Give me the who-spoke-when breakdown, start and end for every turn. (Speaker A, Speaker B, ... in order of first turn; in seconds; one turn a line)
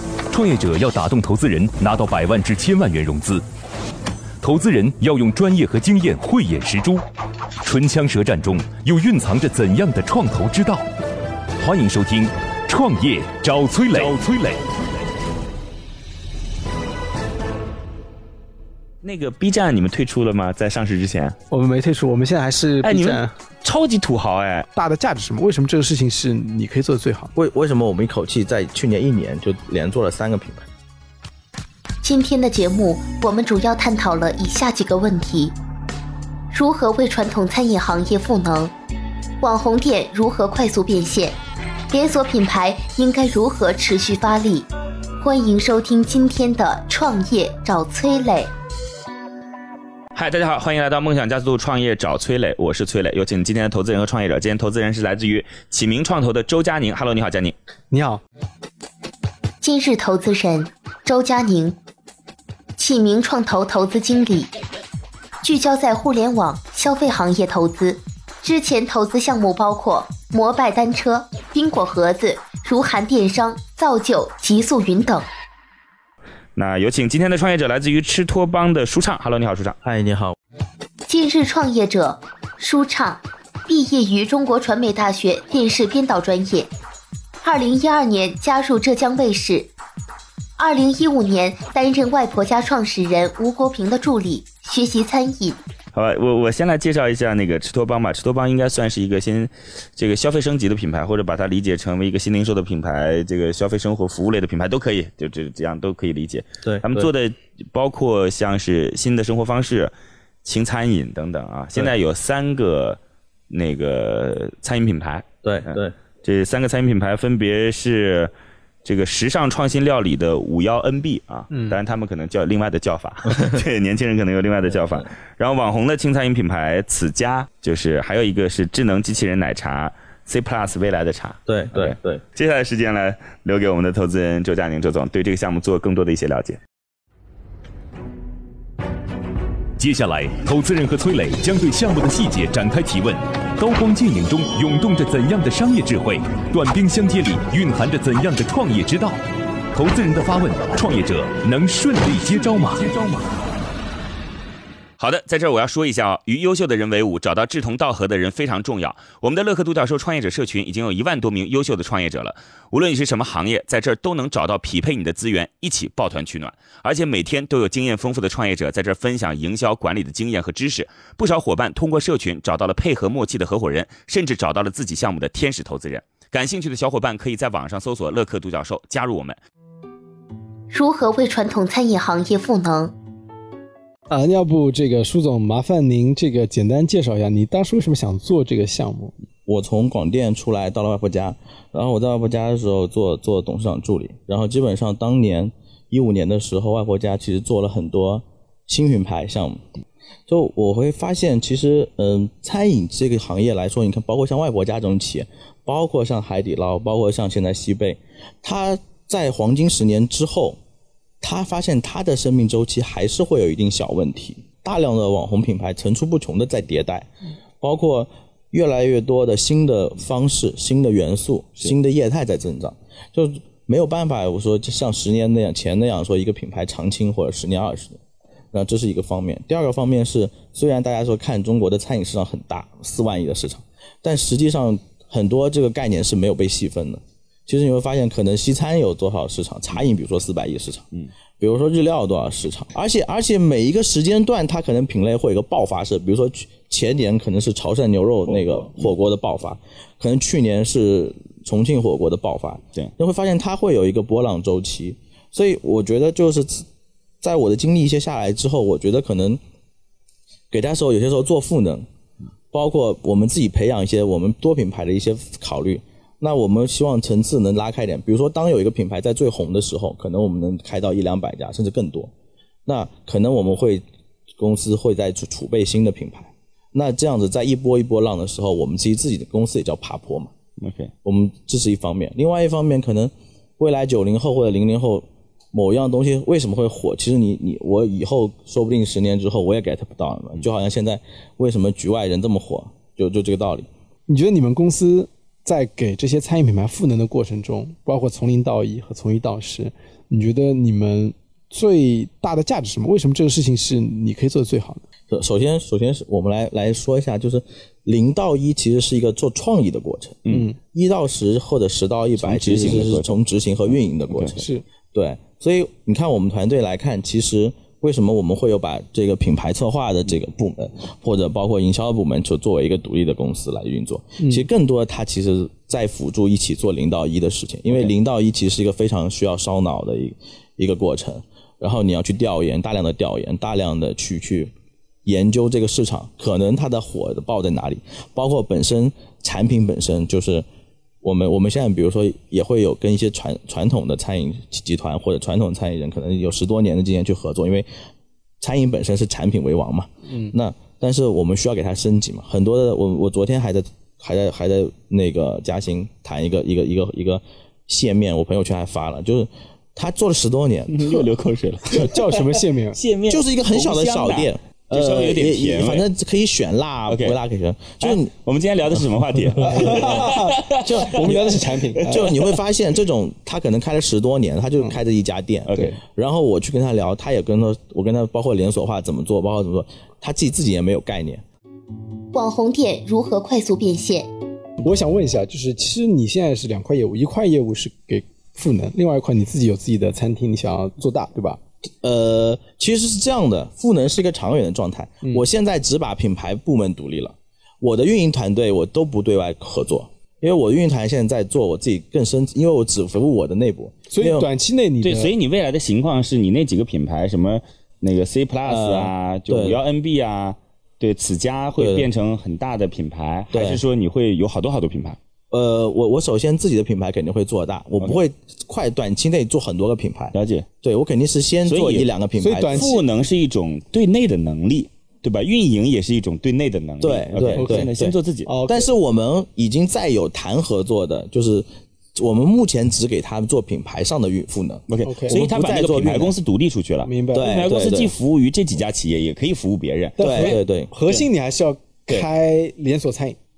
Speaker A: 0.3-3.4
Speaker A: 4.4-7.0
Speaker A: 7.6-10.9
Speaker A: 11.6-14.6
Speaker B: 19.0-21.4
Speaker C: 21.5-23.3
Speaker B: 22.8-24.7
Speaker C: 24.7-27.3
Speaker D: 27.4-30.7
Speaker E: 32.0-35.6
Speaker E: 36.5-38.7
Speaker E: 39.4-41.4
Speaker E: 41.9-44.7
Speaker E: 45.2-48.5
Speaker B: 50.1-57.6
Speaker C: 57.9-58.2
Speaker E: 59.6-61.8
Speaker E: 62.8-64.5
Speaker E: 65.4-75.3
Speaker B: 76.6-79.8
Speaker D: 79.8-80.4
Speaker E: 81.1-86.7
Speaker E: 87.4-89.7
Speaker E: 90.6-95.6
Speaker B: 95.9-109.9
Speaker D: 106.6-107.1
Speaker B: 110.4-118.3
Speaker D: 115.4-116.0
Speaker B: 118.8-136.6
Speaker D: 131.5-132.2
Speaker A: 139.8-149.2
Speaker A: 149.7-152.9
Speaker B: 155.0-179.4
Speaker E: 180.7-182.9
Speaker C: 184.1-189.1
Speaker D: 189.5-199.6
Speaker D: 200.3-210.6
Speaker D: 211.2-217.1
Speaker D: 217.6-228.0
Speaker D: 228.5-240.9
Speaker D: 241.4-256.7
Speaker B: 248.3-248.9
Speaker D: 257.2-259.4
Speaker D: 260.5-261.9
Speaker D: 262.5-272.1
Speaker D: 272.7-273.8
Speaker D: 274.4-280.3
Speaker B: 280.6-280.9
Speaker D: 281.0-293.7
Speaker C: 294.1-304.8
Speaker D: 305.1-334.5
Speaker C: 310.3-310.6
Speaker B: 312.2-313.2
Speaker B: 314.1-314.4
Speaker C: 314.4-314.6
Speaker D: 335.1-340.5
Speaker D: 341.0-347.7
Speaker D: 348.4-361.1
Speaker C: 350.1-350.3
Speaker B: 360.7-365.9
Speaker C: 361.7-362.8
Speaker D: 363.1-368.1
Speaker B: 366.9-367.2
Speaker B: 367.8-372.4
Speaker D: 368.7-381.2
Speaker C: 369.4-372.1
Speaker B: 375.5-375.8
Speaker E: 382.1-384.1
Speaker C: 384.6-391.4
Speaker D: 391.8-404.3
Speaker C: 403.9-405.1
Speaker B: 404.8-415.0
Speaker D: 408.4-409.6
Speaker D: 411.6-411.9
Speaker D: 413.3-413.6
Speaker D: 415.3-422.7
Speaker B: 420.1-420.5
Speaker B: 421.5-421.9
Speaker C: 422.2-422.8
Speaker B: 422.5-428.3
Speaker D: 426.8-436.1
Speaker C: 427.4-427.7
Speaker C: 428.3-428.7
Speaker B: 434.7-441.1
Speaker C: 434.9-435.1
Speaker C: 436.9-437.3
Speaker D: 437.1-437.9
Speaker C: 440.0-443.2
Speaker D: 440.0-440.7